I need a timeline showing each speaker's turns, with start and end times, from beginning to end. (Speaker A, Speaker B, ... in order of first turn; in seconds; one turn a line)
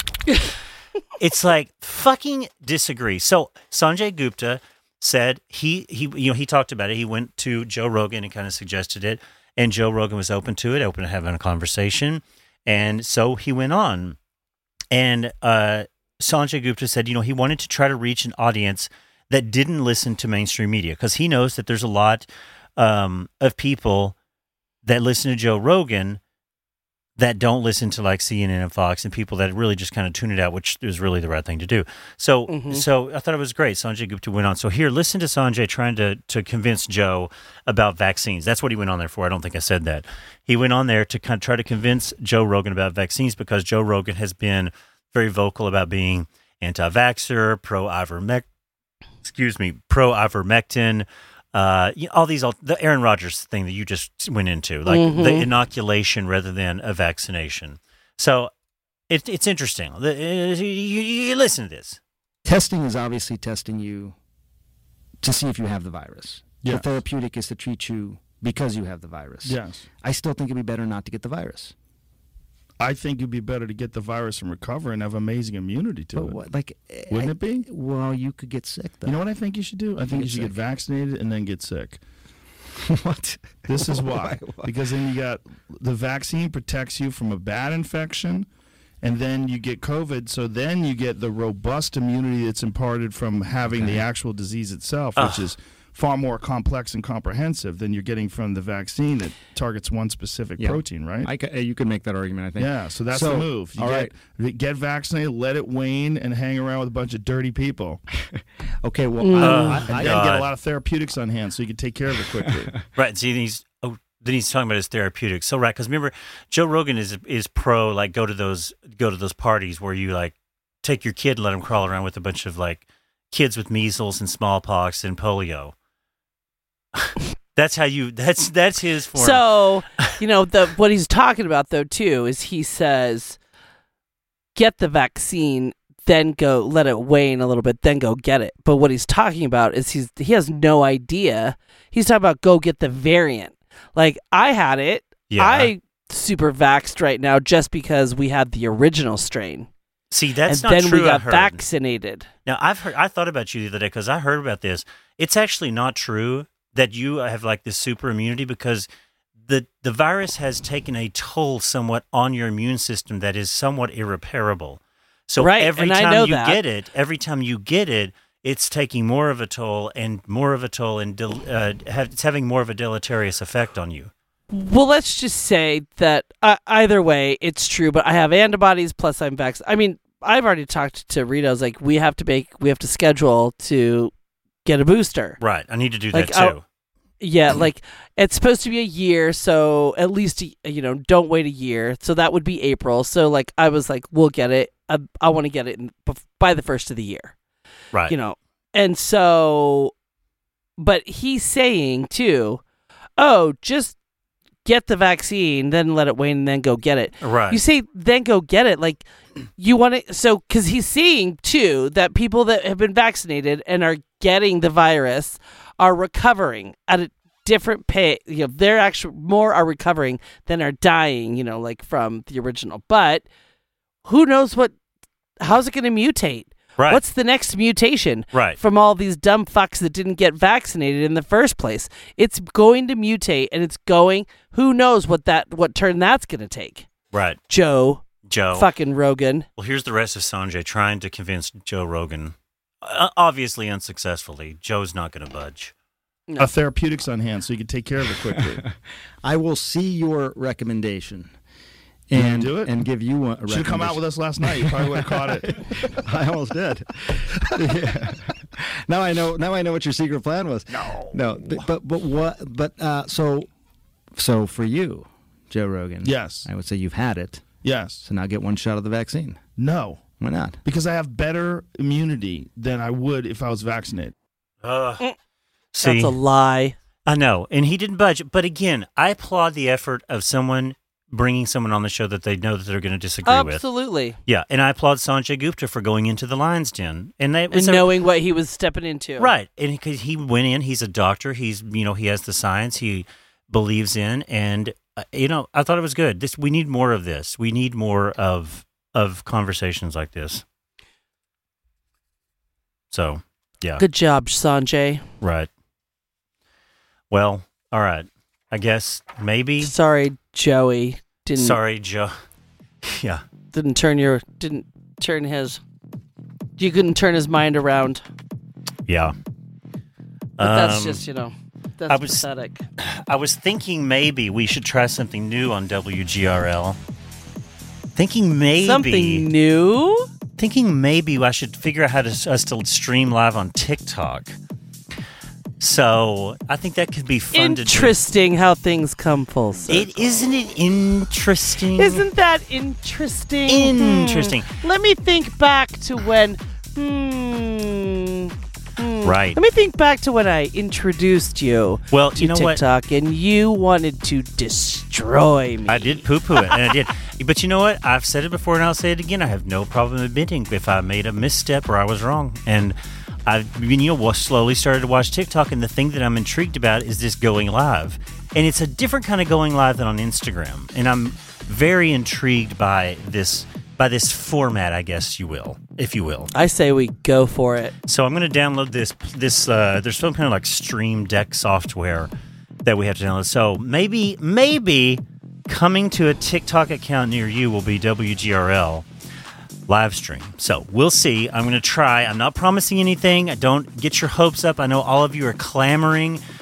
Speaker A: 1.2-14.2
Speaker A: 14.9-24.1
Speaker A: 24.8-26.2
Speaker A: 27.2-48.4
Speaker B: 32.5-32.8
Speaker A: 49.2-58.5
Speaker B: 54.9-55.5
Speaker A: 59.1-62.0
Speaker C: 62.4-64.2
Speaker C: 65.2-71.7
Speaker D: 66.6-66.8
Speaker D: 69.4-69.8
Speaker D: 72.8-76.4
Speaker C: 76.1-79.2
Speaker D: 77.1-77.7
Speaker D: 79.0-82.0
Speaker C: 80.1-80.5
Speaker C: 82.9-84.7
Speaker D: 83.7-88.5
Speaker D: 89.0-101.3
Speaker C: 93.7-94.0
Speaker A: 95.2-95.5
Speaker C: 100.6-104.1
Speaker D: 102.6-108.0
Speaker C: 108.8-110.4
Speaker B: 109.2-109.9
Speaker A: 109.3-110.5
Speaker D: 109.8-112.7
Speaker A: 112.9-125.7
Speaker A: 126.9-129.4
Speaker B: 129.2-133.4
Speaker B: 134.6-149.7
Speaker A: 145.3-145.7
Speaker A: 150.1-151.6
Speaker B: 150.5-152.3
Speaker A: 152.4-158.9
Speaker A: 159.4-174.1
Speaker B: 165.4-166.6
Speaker B: 174.5-184.1
Speaker B: 184.6-185.4
Speaker A: 185.4-186.6
Speaker B: 186.1-186.6
Speaker B: 187.2-197.3
Speaker B: 198.1-199.9
Speaker B: 200.8-202.6
Speaker B: 203.2-203.9
Speaker B: 204.6-223.2
Speaker A: 207.2-207.6
Speaker B: 224.1-224.7
Speaker B: 225.4-236.9
Speaker A: 226.8-227.0
Speaker A: 228.3-228.6
Speaker A: 237.1-237.4
Speaker B: 237.5-239.4
Speaker A: 238.2-238.7
Speaker A: 239.6-245.7
Speaker B: 246.3-246.5
Speaker D: 246.4-248.6
Speaker C: 248.3-248.7
Speaker C: 249.2-251.3
Speaker C: 252.1-258.2
Speaker D: 252.1-252.8
Speaker D: 253.4-255.8
Speaker C: 258.9-263.5
Speaker C: 264.1-267.4
Speaker D: 266.0-266.5
Speaker D: 267.6-268.0
Speaker C: 268.0-269.4
Speaker D: 269.6-274.1
Speaker C: 270.2-270.6
Speaker A: 274.6-275.0
Speaker A: 275.7-276.2
Speaker B: 275.8-276.8
Speaker A: 277.1-283.6
Speaker B: 283.2-284.2
Speaker A: 284.3-287.9
Speaker B: 287.5-289.3
Speaker A: 289.2-300.4
Speaker A: 302.9-303.8
Speaker B: 303.8-305.0
Speaker A: 305.2-305.5
Speaker A: 307.1-309.7
Speaker B: 309.6-311.6
Speaker A: 311.3-312.1
Speaker A: 312.8-313.2
Speaker B: 313.5-315.6
Speaker B: 316.6-318.0
Speaker A: 318.9-319.1
Speaker A: 320.4-321.0
Speaker B: 320.4-322.6
Speaker A: 321.9-322.2
Speaker A: 322.8-326.8
Speaker A: 327.9-329.3
Speaker B: 328.6-330.1
Speaker A: 330.4-334.4
Speaker A: 335.6-338.0
Speaker B: 337.3-339.9
Speaker A: 339.7-342.1
Speaker B: 341.8-356.1
Speaker A: 343.5-344.5
Speaker A: 349.0-349.4
Speaker A: 351.9-352.6
Speaker A: 355.7-376.3
Speaker B: 376.3-377.7
Speaker A: 377.8-382.1
Speaker A: 382.6-388.9
Speaker A: 389.7-396.2